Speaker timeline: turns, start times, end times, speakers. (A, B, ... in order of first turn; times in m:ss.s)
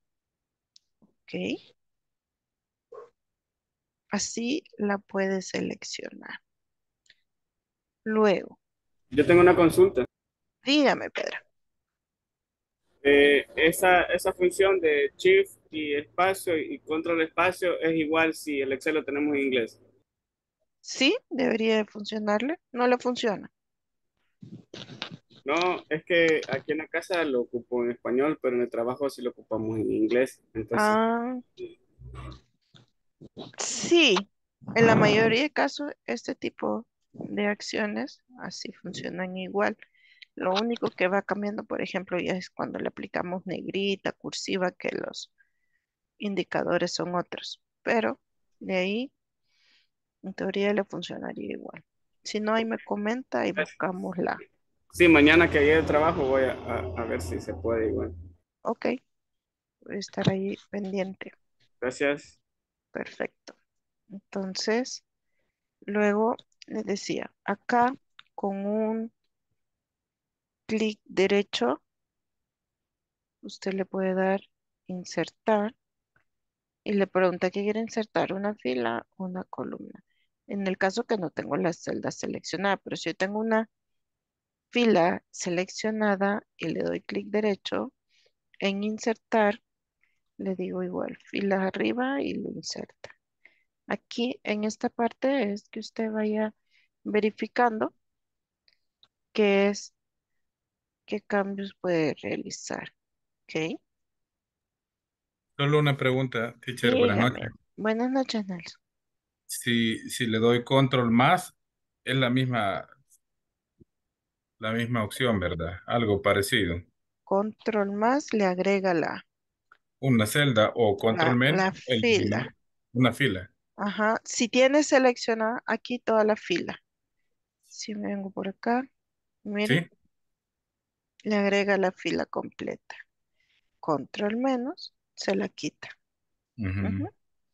0:01.2-0:01.5 A
0:04.1-0:06.4 A
0:08.1-0:08.6 A
0:09.1-0:10.0 B
0:10.6-0:11.4 A
0:13.0-0:19.8 B
0:20.8-0:23.5 A
0:25.4-0:31.0 B
0:30.7-0:31.4 A
0:33.6-0:39.8 A
0:40.4-0:45.3 A
0:46.2-0:49.1 A
0:50.2-0:54.4 A
0:54.9-0:58.1 B
0:58.6-0:58.9 A
0:59.9-1:01.3 A
1:01.8-1:02.4 B
1:02.9-1:03.6 A
1:04.1-1:05.0 A
1:05.9-1:09.1 A
1:10.7-1:11.8 A
1:13.4-1:15.8 A
1:16.9-1:23.7 A
1:24.7-1:27.9 A
1:28.6-1:29.6 A
1:30.4-1:33.1 A
1:33.9-1:36.5 A
1:37.1-1:37.9 A
1:39.3-1:39.9 A
1:41.1-1:42.9 A
1:43.5-1:43.8 A
1:45.6-1:47.5 C
1:46.8-1:48.7 A
1:49.5-1:51.5 C
1:52.0-1:52.9 C
1:54.6-1:56.8 C
1:57.3-1:59.2 A
2:00.0-2:03.5 C
2:01.1-2:02.5 A
2:03.8-2:06.8 A
2:07.7-2:08.9 A
2:09.4-2:09.8 A
2:11.3-2:13.0 A
2:13.8-2:15.9 A
2:16.6-2:17.1 C
2:16.8-2:17.1 A